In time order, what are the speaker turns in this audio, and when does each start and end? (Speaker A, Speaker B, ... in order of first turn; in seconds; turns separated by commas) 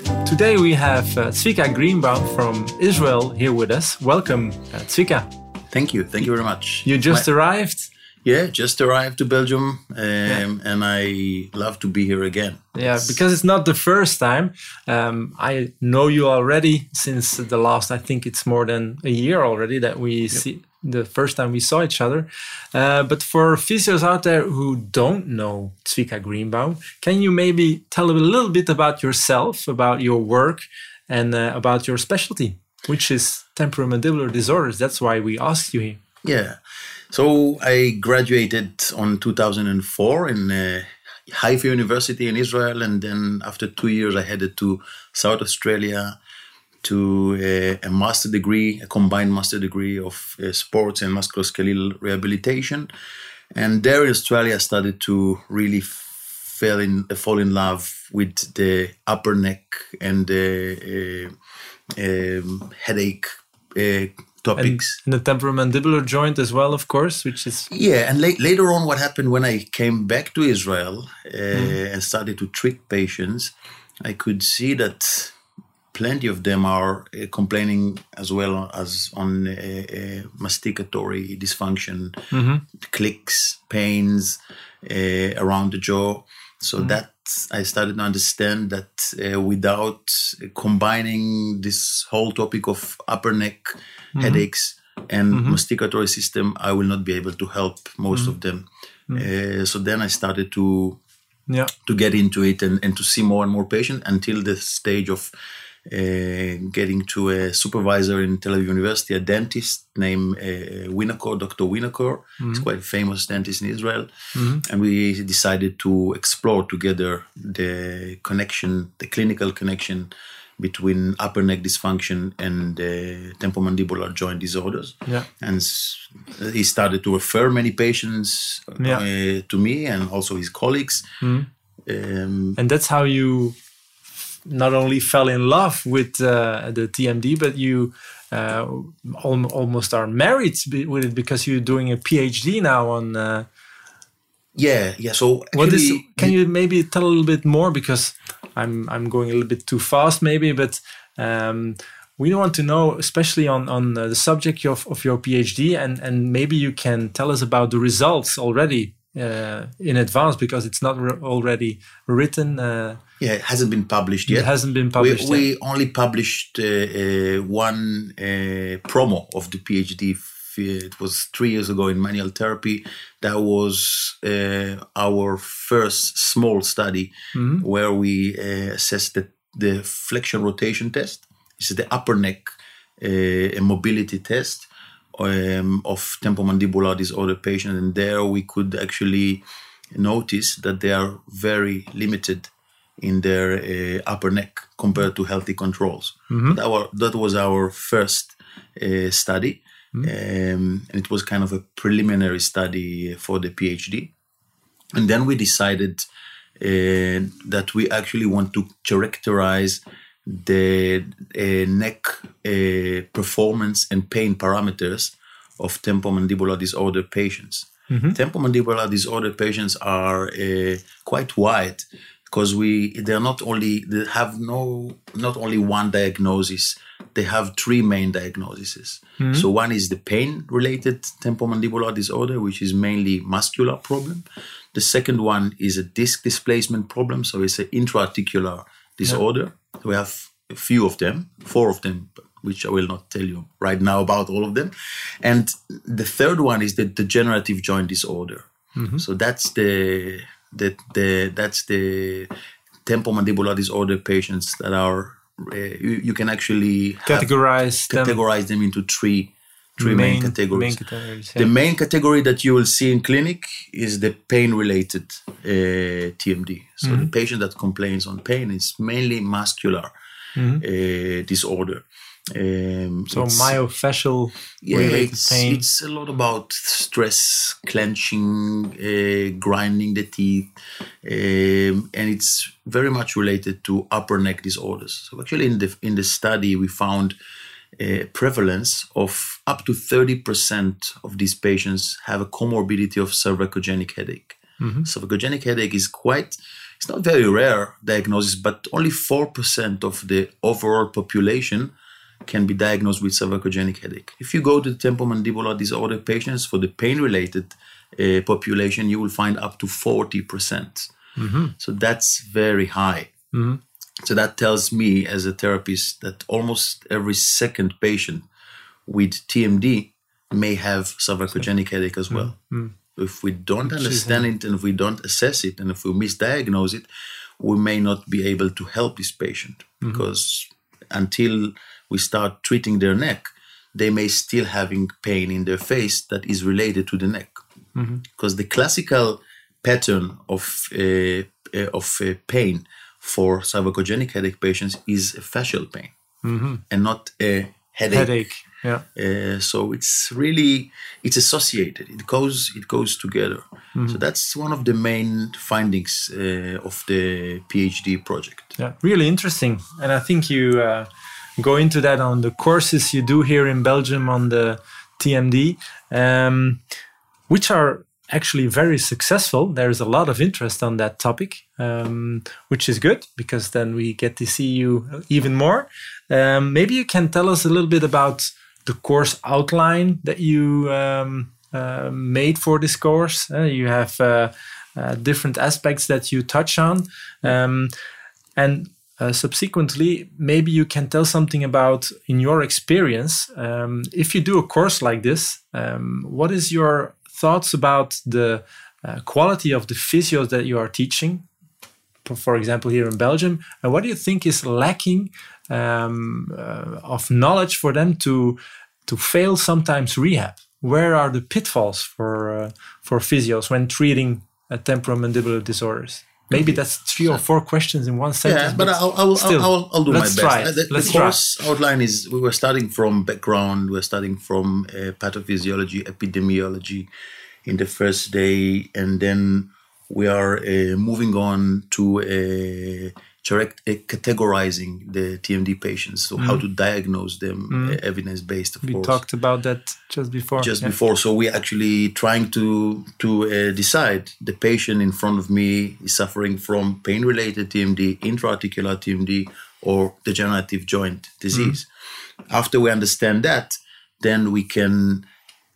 Speaker A: 0.2-5.3, Speaker B: 5.7-7.3, Speaker A: 6.8-7.9, Speaker B: 8.2-13.2, Speaker A: 12.7-36.0, Speaker B: 36.2-36.6, Speaker B: 37.1-46.1, Speaker B: 46.8-52.9, Speaker B: 53.5-61.3, Speaker B: 62.0-65.0, Speaker A: 64.6-67.7, Speaker B: 67.7-75.3, Speaker A: 71.5-71.8, Speaker B: 75.9-82.3, Speaker A: 82.3-82.6, Speaker B: 82.8-101.0, Speaker A: 94.2-94.4, Speaker A: 95.3-95.6, Speaker B: 101.8-105.3, Speaker B: 105.9-131.1, Speaker A: 112.4-112.7, Speaker A: 114.3-114.6, Speaker A: 131.2-131.5, Speaker B: 131.8-132.6, Speaker A: 132.6-133.5, Speaker A: 134.4-143.4, Speaker B: 144.6-146.3, Speaker A: 145.5-163.0, Speaker B: 163.2-189.4, Speaker A: 164.3-165.4, Speaker A: 177.3-177.6, Speaker B: 189.9-192.5, Speaker B: 193.0-204.1, Speaker A: 196.3-196.6, Speaker B: 204.9-206.1, Speaker B: 206.6-248.5, Speaker A: 217.9-218.2, Speaker A: 229.2-229.5, Speaker A: 248.8-249.0, Speaker B: 249.0-252.3, Speaker B: 252.8-257.3, Speaker A: 257.1-258.2, Speaker B: 257.9-260.8, Speaker A: 259.8-261.5, Speaker B: 261.3-269.9, Speaker A: 266.8-267.1, Speaker A: 270.4-270.6, Speaker B: 270.6-273.6, Speaker A: 273.1-275.6, Speaker B: 274.6-280.5, Speaker B: 281.0-287.1, Speaker B: 287.8-301.7, Speaker A: 294.6-294.9, Speaker B: 302.2-310.9, Speaker A: 311.2-311.5, Speaker B: 311.6-313.1, Speaker A: 313.3-313.6, Speaker B: 314.0-318.2, Speaker B: 318.9-322.3, Speaker A: 322.1-322.7, Speaker B: 322.9-326.9, Speaker A: 323.6-324.3, Speaker B: 327.4-337.4, Speaker A: 337.8-338.0, Speaker B: 338.2-345.9, Speaker A: 346.2-346.6, Speaker B: 346.7-348.2, Speaker A: 347.9-348.8, Speaker B: 348.9-358.5, Speaker A: 353.7-354.0, Speaker A: 358.6-366.6, Speaker A: 367.3-387.7, Speaker A: 388.4-401.2, Speaker A: 402.0-421.2, Speaker B: 416.3-416.6, Speaker B: 418.2-426.9, Speaker B: 427.4-439.0, Speaker A: 436.2-436.4, Speaker A: 437.5-437.8, Speaker A: 438.6-440.7, Speaker B: 440.4-451.7, Speaker B: 452.3-455.0